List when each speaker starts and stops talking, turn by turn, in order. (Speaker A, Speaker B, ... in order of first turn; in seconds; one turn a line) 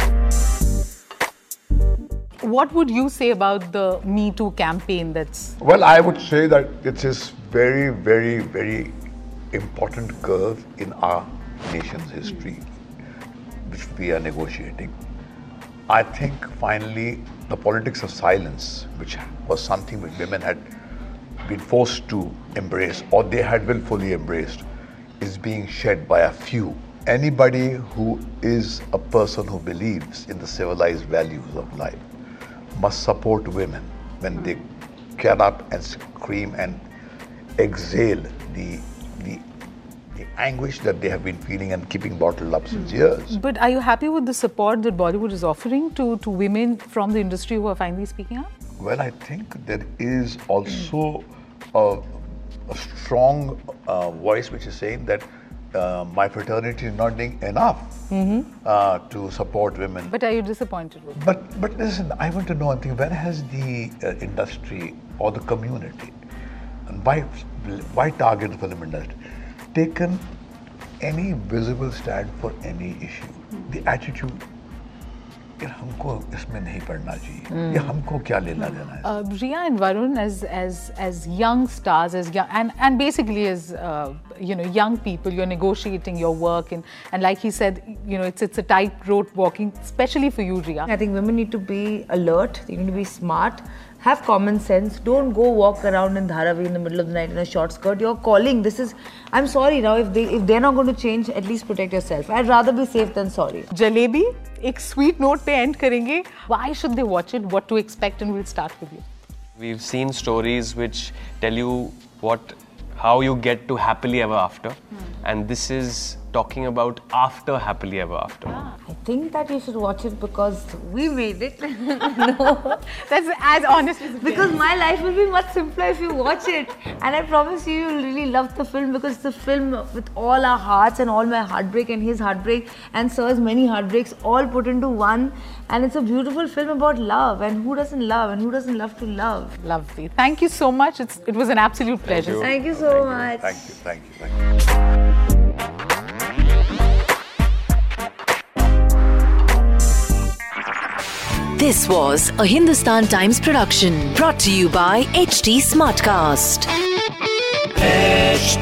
Speaker A: 2.4-5.5
Speaker B: 5.6-9.0
Speaker B: 9.5-12.6
Speaker B: 13.7-14.9
Speaker B: 15.9-20.7
Speaker B: 21.4-24.6
Speaker B: 25.2-32.0
Speaker B: 32.8-34.7
Speaker B: 35.2-36.8
Speaker B: 37.6-39.4
Speaker B: 40.1-43.4
Speaker A: 43.3-48.5
Speaker B: 48.8-60.2
Speaker C: 58.1-58.5
Speaker A: 60.1-61.2
Speaker B: 61.1-66.2
Speaker B: 66.9-69.2
Speaker B: 69.7-70.2
Speaker B: 71.0-74.4
Speaker B: 75.6-79.2
Speaker A: 79.0-90.9
Speaker C: 90.9-103.7
Speaker A: 103.7-109.0
Speaker D: 109.6-118.6
Speaker C: 118.9-122.8
Speaker A: 122.9-124.7
Speaker C: 124.1-139.6
Speaker A: 139.6-142.5
Speaker D: 142.0-143.1
Speaker C: 142.4-143.6
Speaker B: 142.8-144.4
Speaker E: 151.6-156.7